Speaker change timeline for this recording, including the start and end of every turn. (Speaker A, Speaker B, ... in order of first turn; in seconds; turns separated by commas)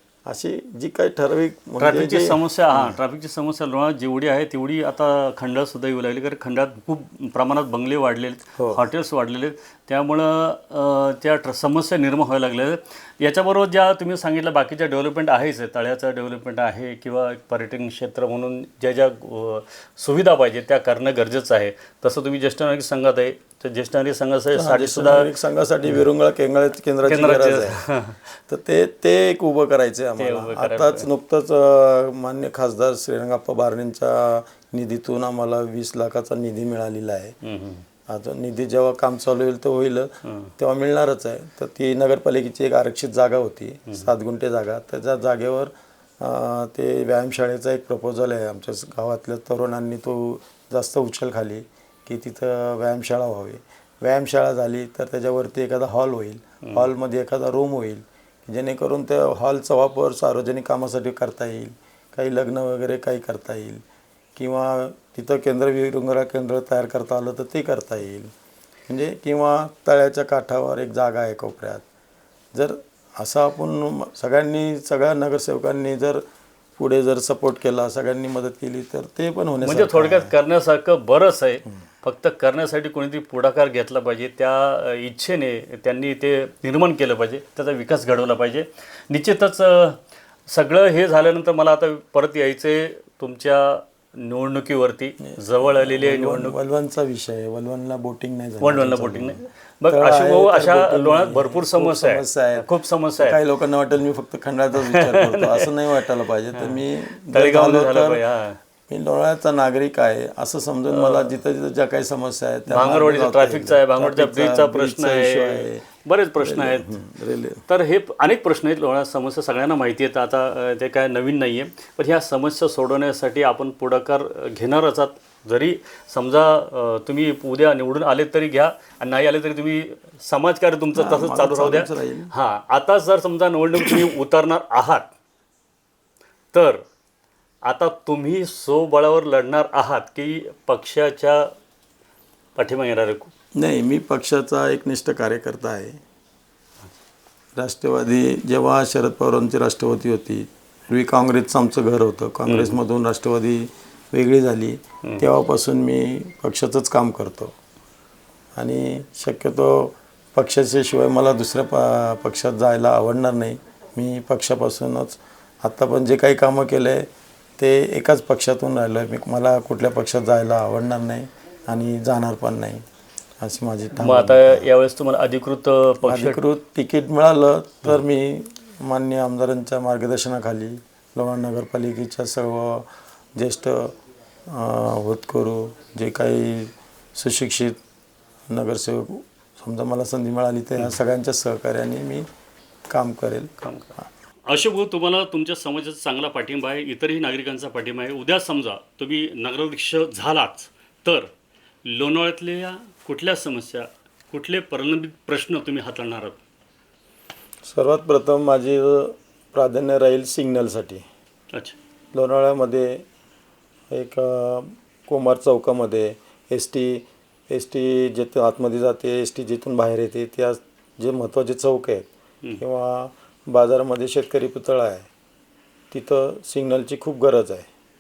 Speaker A: 0.3-3.0, Speaker B: 1.8-25.3, Speaker A: 8.6-8.8, Speaker A: 24.6-27.8, Speaker B: 27.1-28.3, Speaker A: 28.5-37.4, Speaker B: 30.2-31.1, Speaker B: 37.4-37.9, Speaker A: 38.1-63.8, Speaker B: 40.2-40.5, Speaker A: 64.3-68.3, Speaker A: 68.9-71.8, Speaker A: 72.5-76.3, Speaker A: 76.8-80.3, Speaker B: 79.6-96.6, Speaker A: 95.3-102.7, Speaker B: 98.6-103.4, Speaker A: 103.2-108.2, Speaker B: 104.8-105.7, Speaker B: 106.5-108.6, Speaker A: 108.9-115.8, Speaker B: 110.9-111.3, Speaker B: 112.7-116.9, Speaker A: 116.4-117.6, Speaker B: 117.7-135.1, Speaker A: 130.9-132.3, Speaker B: 136.5-136.8, Speaker B: 137.7-141.5, Speaker B: 142.6-143.3, Speaker A: 143.6-146.0, Speaker A: 147.6-157.6, Speaker B: 152.5-152.8, Speaker A: 158.6-172.8, Speaker A: 173.4-174.7, Speaker B: 174.0-176.4, Speaker A: 176.1-184.0, Speaker A: 184.5-187.8, Speaker A: 188.5-192.3, Speaker A: 192.9-193.6, Speaker B: 193.6-193.9, Speaker B: 194.5-201.3, Speaker B: 201.8-206.4, Speaker A: 207.6-211.1, Speaker A: 212.1-213.1, Speaker A: 213.9-222.1, Speaker A: 222.6-225.1, Speaker A: 225.9-227.7